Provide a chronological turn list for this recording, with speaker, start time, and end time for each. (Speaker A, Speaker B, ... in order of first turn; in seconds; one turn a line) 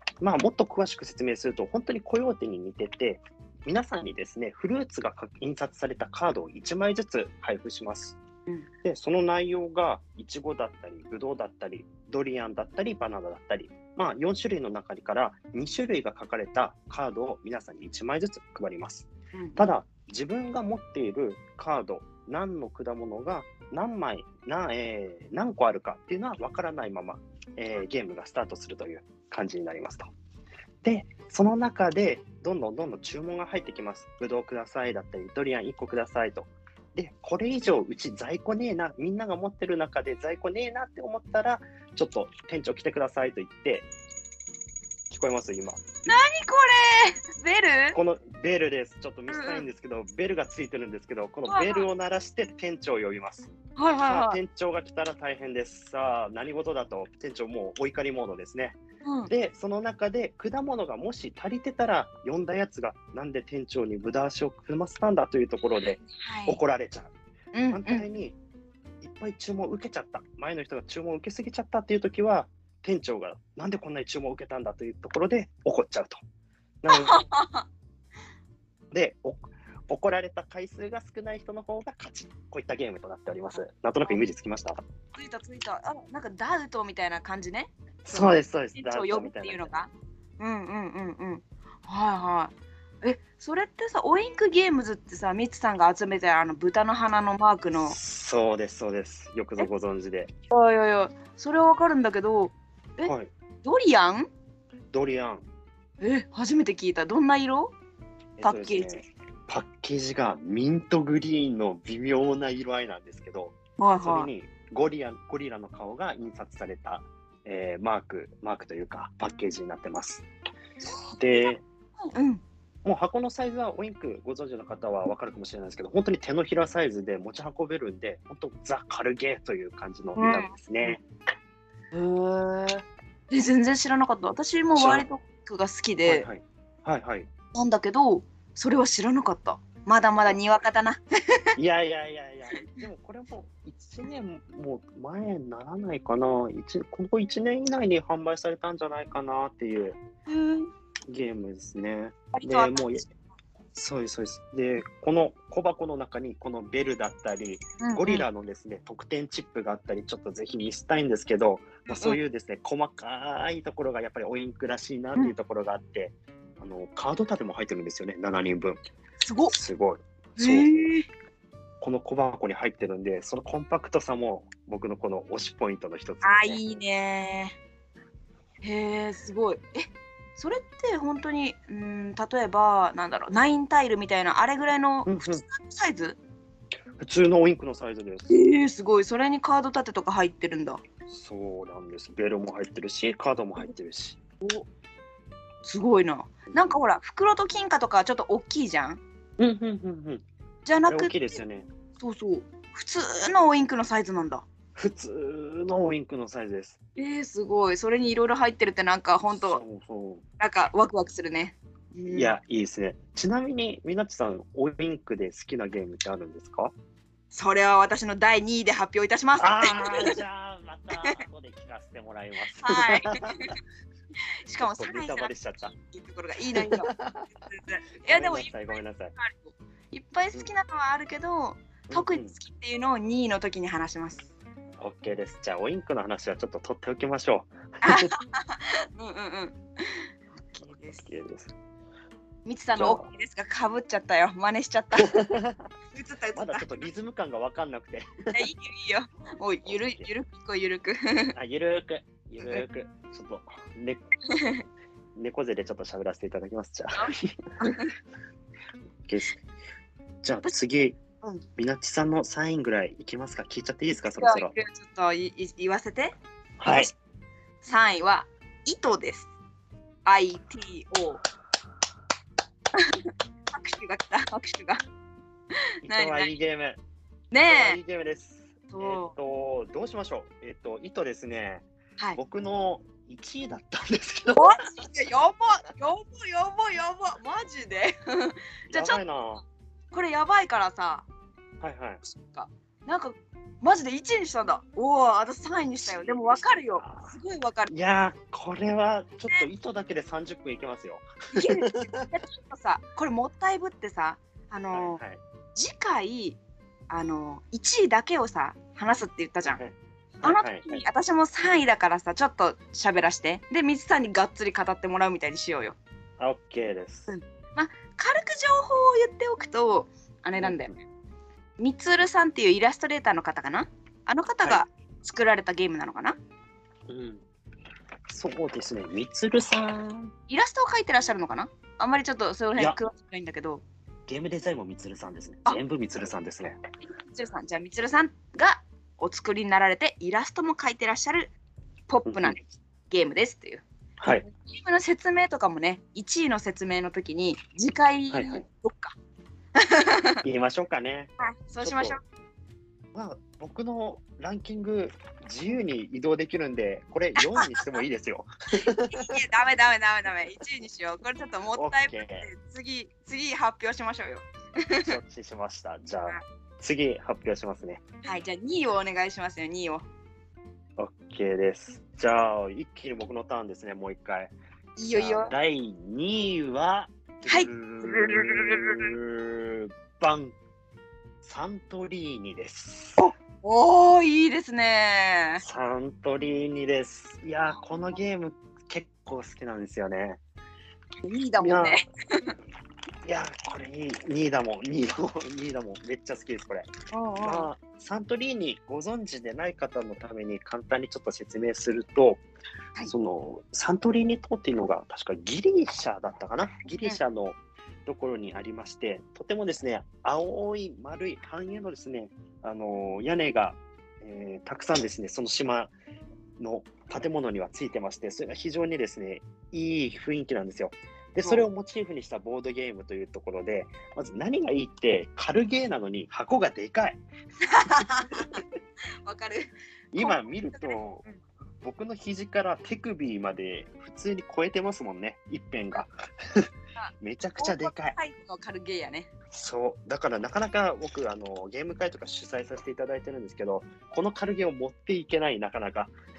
Speaker A: 0.2-8.2
Speaker A: 8.8-30.1
Speaker B: 19.3-19.7
Speaker A: 30.8-43.9
Speaker A: 45.1-45.8
Speaker B: 46.0-48.0
Speaker A: 47.9-53.5
Speaker B: 49.3-49.7
Speaker B: 51.5-51.9
Speaker B: 53.8-54.4
Speaker A: 54.0-67.1
Speaker B: 59.0-59.3
Speaker B: 66.0-66.6
Speaker B: 67.5-68.0
Speaker A: 67.7-68.3
Speaker A: 69.0-76.2
Speaker A: 76.8-77.2
Speaker B: 76.9-77.6
Speaker A: 78.9-84.8
Speaker B: 85.1-98.0
Speaker A: 88.0-89.9
Speaker A: 97.8-100.3
Speaker B: 100.5-103.1
Speaker A: 103.0-103.3
Speaker B: 103.6-104.3
Speaker A: 104.9-105.4
Speaker B: 106.0-107.7
Speaker A: 108.4-120.2
Speaker B: 108.4-108.9
Speaker B: 113.8-114.3
Speaker B: 120.8-121.5
Speaker A: 121.1-121.6
Speaker B: 122.1-122.4
Speaker A: 122.8-131.0
Speaker B: 130.2-130.9
Speaker B: 131.9-136.3
Speaker A: 134.8-135.0
Speaker A: 136.1-137.3
Speaker B: 137.5-141.6
Speaker A: 141.6-150.0
Speaker B: 150.3-150.7
Speaker A: 151.1-153.0
Speaker B: 152.3-153.0
Speaker A: 153.7-168.8
Speaker B: 157.8-158.3
Speaker B: 161.9-162.2
Speaker B: 169.2-169.5
Speaker A: 169.5-170.9
Speaker B: 170.4-171.1
Speaker A: 171.8-176.6
Speaker B: 176.2-177.6
Speaker B: 178.6-186.2
Speaker A: 185.1-185.4
Speaker A: 187.0-188.3
Speaker B: 188.3-190.8
Speaker A: 191.1-194.2
Speaker B: 195.6-199.0
Speaker A: 196.5-196.8
Speaker A: 199.4-200.2
Speaker B: 200.6-201.4
Speaker A: 200.8-201.7
Speaker B: 202.0-204.4
Speaker A: 204.8-206.8
Speaker B: 206.9-209.6
Speaker A: 209.4-210.2
Speaker B: 210.4-212.3
Speaker A: 212.1-216.7
Speaker B: 217.3-220.2
Speaker A: 219.4-223.5
Speaker B: 222.6-223.5
Speaker B: 224.4-226.9
Speaker A: 224.6-225.7
Speaker A: 226.5-227.3
Speaker B: 227.4-234.3
Speaker A: 228.0-229.1
Speaker A: 231.9-232.3
Speaker A: 234.8-238.1
Speaker B: 237.8-241.0
Speaker A: 240.9-241.5
Speaker B: 242.4-245.2
Speaker A: 242.7-243.1
Speaker A: 244.9-245.6
Speaker B: 245.9-246.7
Speaker A: 246.3-248.4
Speaker B: 248.3-251.3
Speaker A: 249.6-250.1
Speaker A: 251.3-254.0
Speaker B: 254.3-254.6
Speaker A: 255.1-257.7
Speaker B: 257.0-257.9
Speaker A: 259.1-259.4
Speaker A: 260.2-261.0
Speaker A: 261.6-264.6
Speaker B: 264.1-266.1
Speaker A: 266.6-266.9
Speaker B: 267.6-269.3
Speaker B: 270.0-271.2
Speaker B: 272.7-274.8
Speaker B: 275.8-276.3
Speaker A: 275.8-276.8
Speaker B: 277.3-277.8
Speaker A: 277.4-281.6
Speaker B: 278.7-279.1
Speaker A: 282.1-284.6
Speaker B: 284.3-289.0
Speaker A: 288.7-289.4
Speaker B: 289.9-291.1
Speaker A: 291.6-292.0
Speaker B: 292.0-297.7
Speaker A: 295.8-297.1
Speaker A: 297.7-302.1
Speaker B: 301.3-305.0
Speaker A: 304.7-305.2
Speaker B: 305.5-306.4
Speaker B: 306.9-309.6
Speaker A: 309.4-310.8
Speaker B: 310.2-315.8
Speaker A: 316.2-317.1
Speaker B: 317.1-320.7
Speaker A: 320.4-320.7
Speaker B: 321.6-326.2
Speaker A: 326.9-327.2
Speaker A: 328.1-330.1
Speaker B: 330.3-333.6
Speaker A: 334.1-336.6
Speaker B: 336.9-341.3
Speaker B: 341.9-348.9
Speaker A: 342.1-342.4
Speaker A: 344.0-344.2
Speaker A: 348.1-348.4
Speaker B: 349.6-350.2
Speaker A: 350.2-352.0
Speaker B: 351.2-352.0
Speaker A: 352.9-359.2
Speaker B: 357.2-357.8
Speaker B: 358.6-364.9
Speaker A: 361.5-362.3
Speaker A: 364.8-367.8
Speaker B: 368.0-369.9
Speaker A: 370.8-374.3
Speaker B: 374.8-375.3
Speaker A: 374.9-380.3
Speaker B: 377.3-378.9
Speaker A: 381.2-383.0
Speaker B: 383.0-385.4
Speaker A: 385.4-390.2
Speaker B: 391.0-392.3
Speaker A: 391.4-391.8
Speaker A: 393.0-396.7
Speaker B: 396.9-397.5
Speaker A: 397.2-402.2
Speaker A: 402.8-415.7
Speaker A: 416.4-427.0
Speaker B: 427.4-428.4
Speaker B: 429.0-431.2
Speaker A: 429.9-431.0
Speaker A: 431.6-436.5
Speaker B: 436.8-439.1
Speaker A: 437.0-437.9
Speaker A: 439.3-445.9